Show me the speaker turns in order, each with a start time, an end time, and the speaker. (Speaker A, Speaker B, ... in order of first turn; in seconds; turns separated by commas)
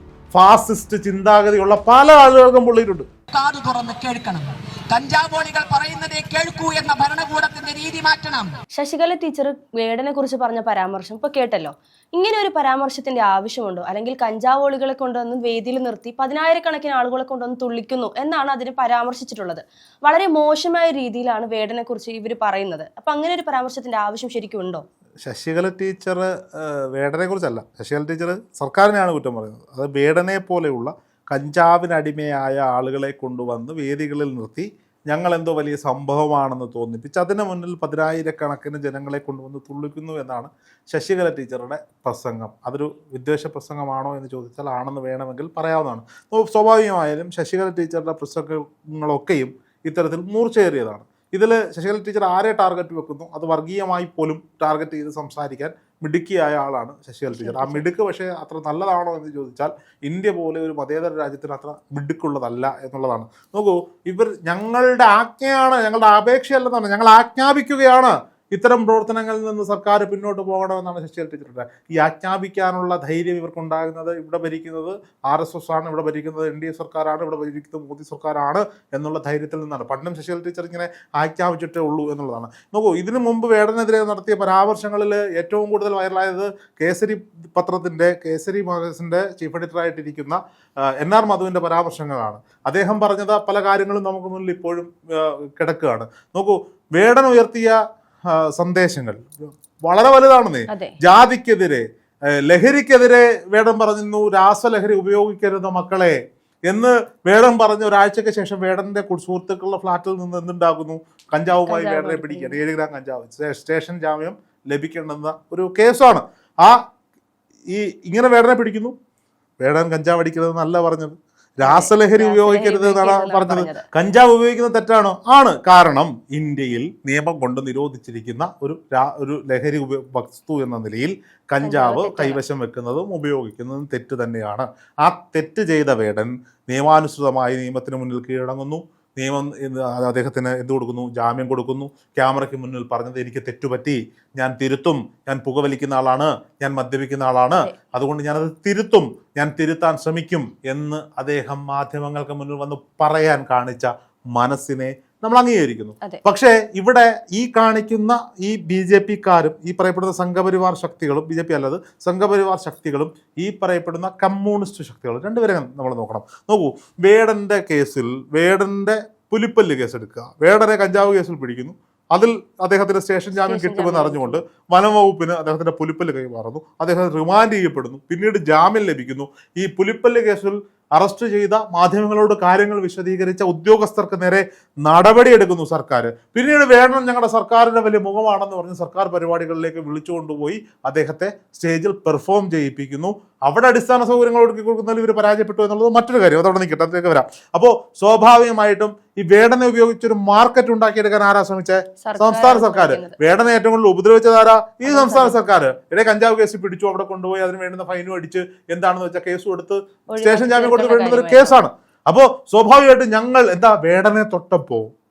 Speaker A: 0.3-3.1, Speaker B: 3.3-8.6, Speaker C: 8.7-24.8, Speaker A: 25.2-97.8, Speaker C: 57.3-57.9, Speaker A: 98.3-99.2, Speaker A: 99.8-101.8, Speaker C: 100.7-101.0, Speaker A: 102.4-106.2, Speaker A: 106.7-116.8, Speaker C: 111.7-112.6, Speaker A: 117.7-118.9, Speaker A: 119.6-214.9, Speaker C: 121.6-123.9, Speaker C: 131.6-132.4, Speaker C: 173.4-174.4, Speaker C: 202.0-203.2, Speaker C: 204.8-205.4, Speaker C: 210.1-211.6